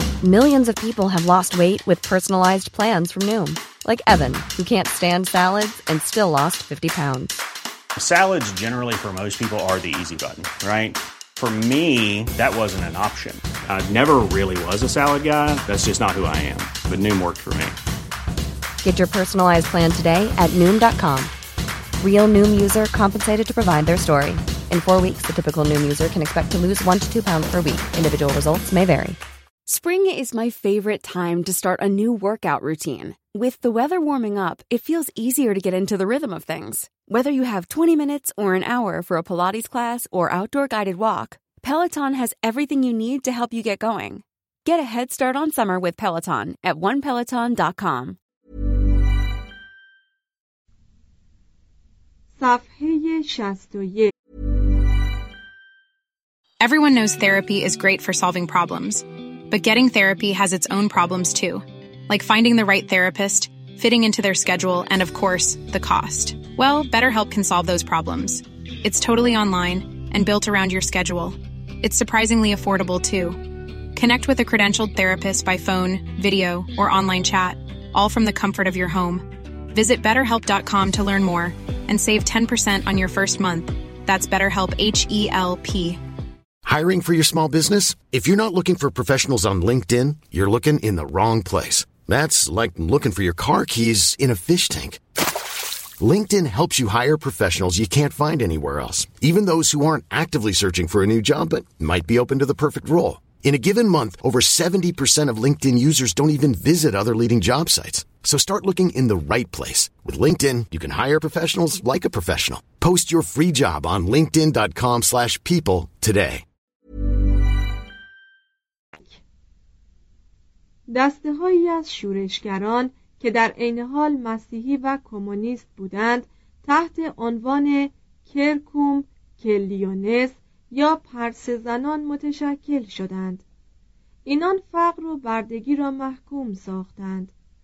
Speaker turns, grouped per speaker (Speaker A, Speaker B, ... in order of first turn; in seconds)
Speaker A: 0.2-7.4, 18.8-21.3, 22.0-29.2
Speaker B: 8.0-17.8
Speaker C: 29.6-48.2
Speaker D: 52.4-54.1, 120.9-133.4, 134.2-137.3
Speaker E: 56.6-73.4, 73.9-86.0
Speaker F: 86.6-95.0, 96.0-116.4